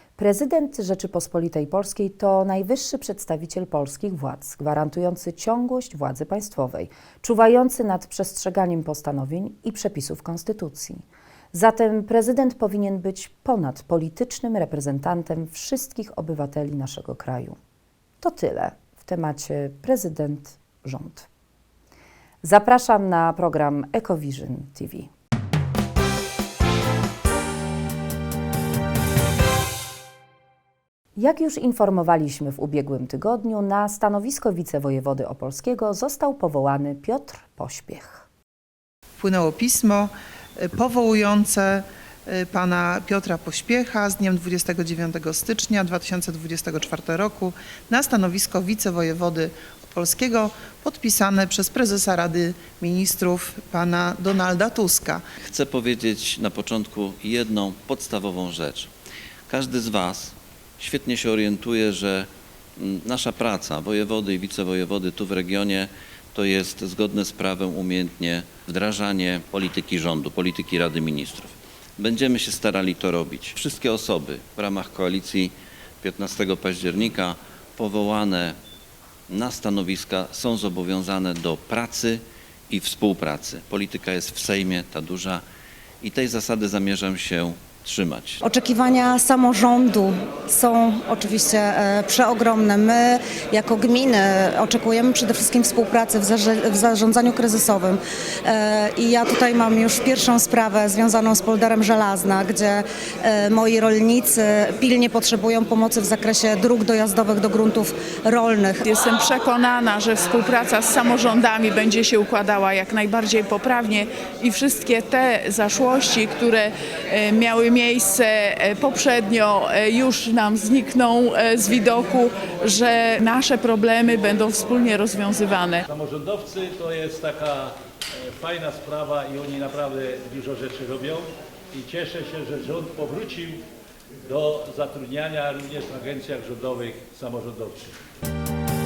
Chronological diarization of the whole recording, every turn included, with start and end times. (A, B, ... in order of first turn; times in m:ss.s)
0:00.2-0:17.6 A
0:18.2-0:21.3 A
0:22.4-0:25.1 A
0:31.2-0:38.2 A
0:39.2-0:40.1 B
0:40.7-0:41.8 B
0:42.4-0:55.2 B
0:55.4-0:58.9 C
0:59.5-1:18.6 C
1:19.3-1:25.4 C
1:26.0-1:28.4 C
1:28.4-1:48.8 D
1:48.8-2:05.8 E
2:05.9-2:13.6 F
2:14.3-2:17.9 F